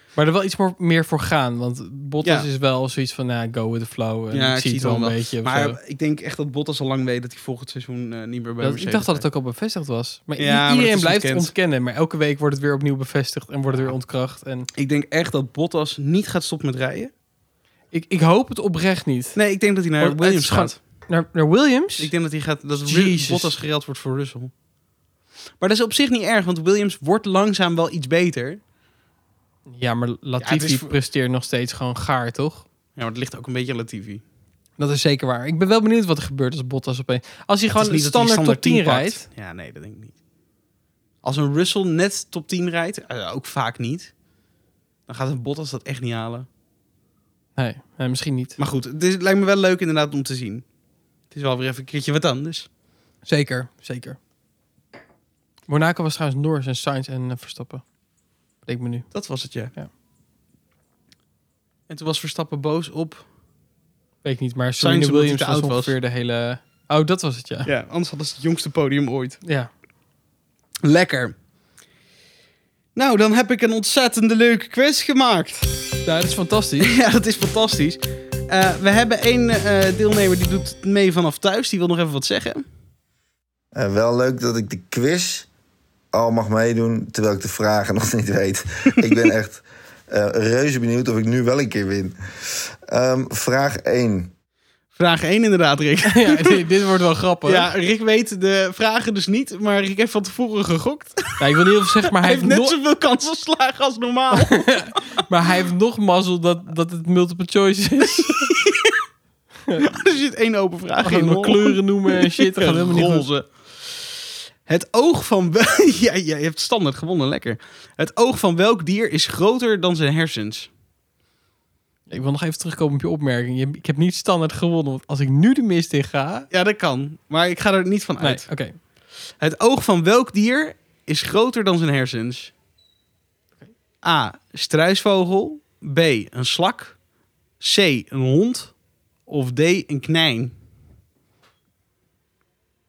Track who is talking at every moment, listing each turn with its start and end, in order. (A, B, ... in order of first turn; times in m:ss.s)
0:00.2-0:05.8 A
0:02.2-0:02.5 B
0:04.3-0:09.2 B
0:08.6-0:14.7 A
0:10.4-0:11.5 B
0:14.8-0:17.1 B
0:17.9-0:19.4 A
0:19.3-0:20.8 B
0:20.0-0:22.1 A
0:22.0-0:24.5 B
0:22.8-0:23.5 A
0:25.6-0:28.6 B
0:29.7-0:32.6 A
0:30.4-0:30.9 B
0:33.0-0:34.2 B
0:34.8-0:39.2 A
0:37.7-0:40.1 B
0:41.2-0:44.1 B
0:45.1-0:46.5 B
0:47.6-0:48.6 A
0:48.6-0:50.6 B
0:51.3-0:52.7 B
0:53.2-0:54.2 A
0:55.7-0:57.8 A
0:58.6-0:59.1 A
0:59.1-0:59.7 B
1:01.9-1:03.2 B
1:04.2-1:07.7 A
1:04.8-1:05.9 B
1:07.6-1:09.4 B
1:09.4-1:09.7 A
1:10.8-1:11.3 B
1:12.9-1:15.9 B
1:16.0-1:16.9 A
1:16.8-1:22.6 B
1:23.7-1:25.5 C
1:26.1-1:34.3 C
1:35.0-1:36.6 B
1:36.1-1:37.7 A
1:37.4-1:41.5 B
1:41.4-1:42.7 A
1:42.1-1:44.9 B
1:44.3-1:48.6 A
1:48.3-1:49.0 B
1:49.8-1:54.0 B
1:51.0-1:53.3 A
1:54.6-2:00.7 B
2:02.1-2:06.5 A
2:06.5-2:08.5 B
2:08.2-2:08.8 A
2:09.4-2:12.5 B
2:14.0-2:17.0 B
2:17.6-2:18.7 B
2:19.3-2:20.5 B